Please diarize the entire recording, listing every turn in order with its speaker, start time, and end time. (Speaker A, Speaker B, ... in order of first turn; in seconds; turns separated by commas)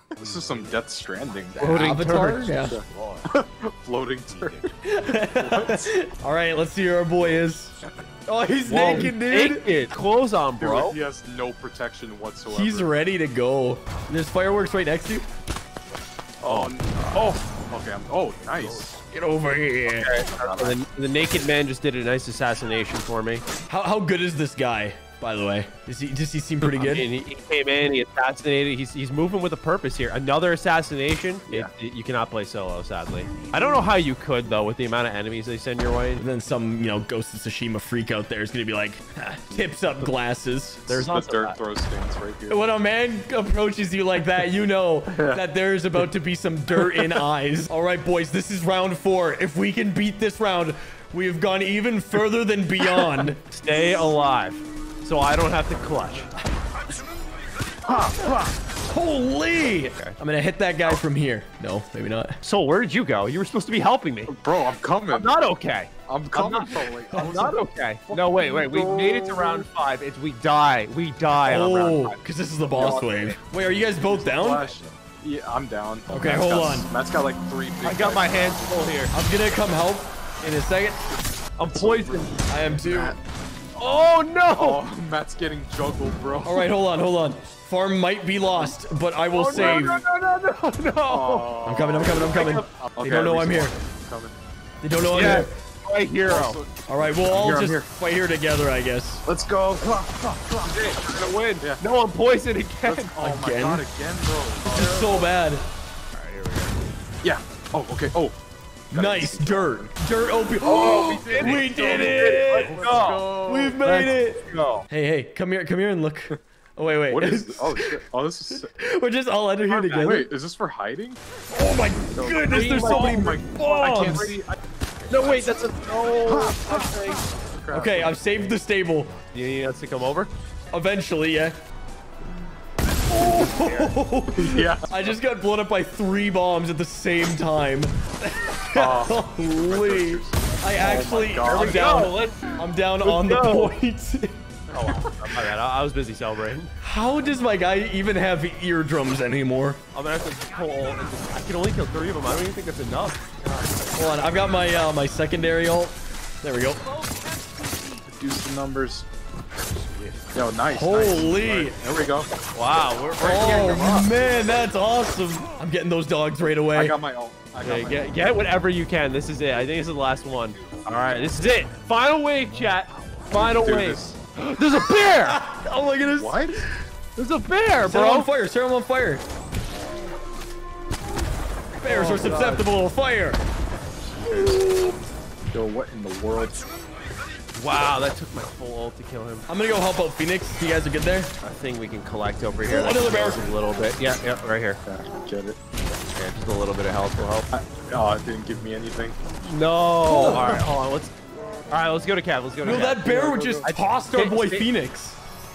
Speaker A: 0.1-1.9, Speaker B: 1.6-2.5, Speaker C: 1.7-2.8, Speaker A: 2.6-4.7, Speaker C: 4.8-7.8, Speaker A: 5.4-5.9, Speaker C: 8.3-9.7, Speaker B: 8.7-11.0, Speaker A: 10.6-12.9, Speaker C: 12.5-15.2, Speaker A: 16.4-18.9, Speaker B: 16.4-17.3, Speaker C: 19.1-20.2, Speaker B: 20.0-23.4, Speaker A: 20.2-20.8, Speaker C: 23.7-27.1, Speaker B: 26.6-36.2, Speaker C: 36.2-40.9, Speaker A: 40.9-42.7, Speaker B: 40.9-41.6, Speaker C: 42.5-53.4, Speaker A: 45.1-45.4, Speaker A: 46.8-47.1, Speaker B: 53.5-56.3, Speaker A: 57.9-58.5, Speaker C: 58.9-62.4, Speaker B: 59.7-60.1, Speaker B: 62.4-64.4, Speaker A: 64.2-65.3, Speaker B: 65.1-72.2, Speaker A: 66.1-67.6, Speaker C: 67.1-67.5, Speaker A: 68.1-69.6, Speaker C: 71.4-74.8, Speaker A: 72.7-73.0, Speaker B: 72.7-73.4, Speaker A: 73.6-79.0, Speaker C: 76.1-76.9, Speaker B: 77.8-79.1, Speaker C: 79.1-81.0, Speaker B: 81.6-82.4, Speaker A: 81.7-83.2, Speaker C: 82.5-83.2, Speaker B: 83.8-84.8, Speaker A: 83.8-86.7, Speaker C: 86.4-90.0, Speaker B: 89.3-91.5, Speaker A: 89.5-89.9, Speaker A: 91.0-94.3, Speaker C: 91.6-93.7, Speaker B: 92.1-92.7, Speaker C: 94.8-95.5, Speaker B: 95.1-96.6, Speaker A: 96.2-97.8, Speaker C: 96.9-99.2, Speaker B: 97.3-97.8, Speaker A: 99.2-101.0, Speaker B: 100.6-103.2, Speaker A: 102.8-105.2, Speaker C: 103.2-103.8, Speaker C: 104.7-105.6, Speaker B: 106.1-106.7, Speaker A: 107.2-108.4, Speaker A: 108.9-109.9, Speaker C: 108.9-112.8, Speaker B: 110.6-113.3, Speaker A: 110.6-113.8, Speaker C: 113.4-118.0, Speaker B: 113.8-114.9, Speaker A: 117.1-118.7, Speaker C: 118.5-120.3, Speaker B: 119.6-120.1, Speaker A: 120.0-121.2, Speaker C: 121.5-124.3, Speaker A: 122.1-124.6, Speaker B: 122.4-124.4, Speaker A: 125.1-125.5, Speaker B: 125.1-127.2, Speaker A: 126.2-128.2, Speaker C: 127.7-129.1, Speaker B: 129.3-130.3, Speaker C: 130.7-131.6, Speaker C: 133.1-144.3, Speaker B: 133.1-133.9, Speaker A: 134.3-135.2, Speaker A: 138.7-142.0, Speaker B: 141.4-143.8, Speaker B: 144.7-146.7, Speaker C: 146.8-149.8, Speaker B: 149.9-153.3, Speaker C: 153.9-156.8, Speaker A: 158.1-159.1, Speaker A: 160.3-162.3, Speaker C: 160.7-161.8, Speaker B: 162.5-164.1, Speaker C: 163.2-166.9, Speaker A: 166.7-168.2, Speaker B: 167.6-175.4, Speaker A: 173.3-174.2, Speaker C: 175.1-176.8, Speaker A: 176.0-176.7, Speaker B: 177.2-178.3, Speaker C: 177.8-179.2, Speaker C: 181.8-183.4, Speaker B: 181.8-182.7, Speaker A: 184.1-184.9, Speaker C: 184.2-185.0, Speaker A: 185.5-186.6, Speaker B: 187.5-189.5, Speaker C: 189.5-191.3, Speaker B: 191.4-194.8, Speaker C: 192.6-193.4, Speaker A: 194.8-195.6, Speaker B: 196.1-197.4, Speaker A: 197.5-199.4, Speaker B: 199.4-201.1, Speaker C: 200.1-200.6, Speaker B: 201.7-204.7, Speaker C: 202.6-205.2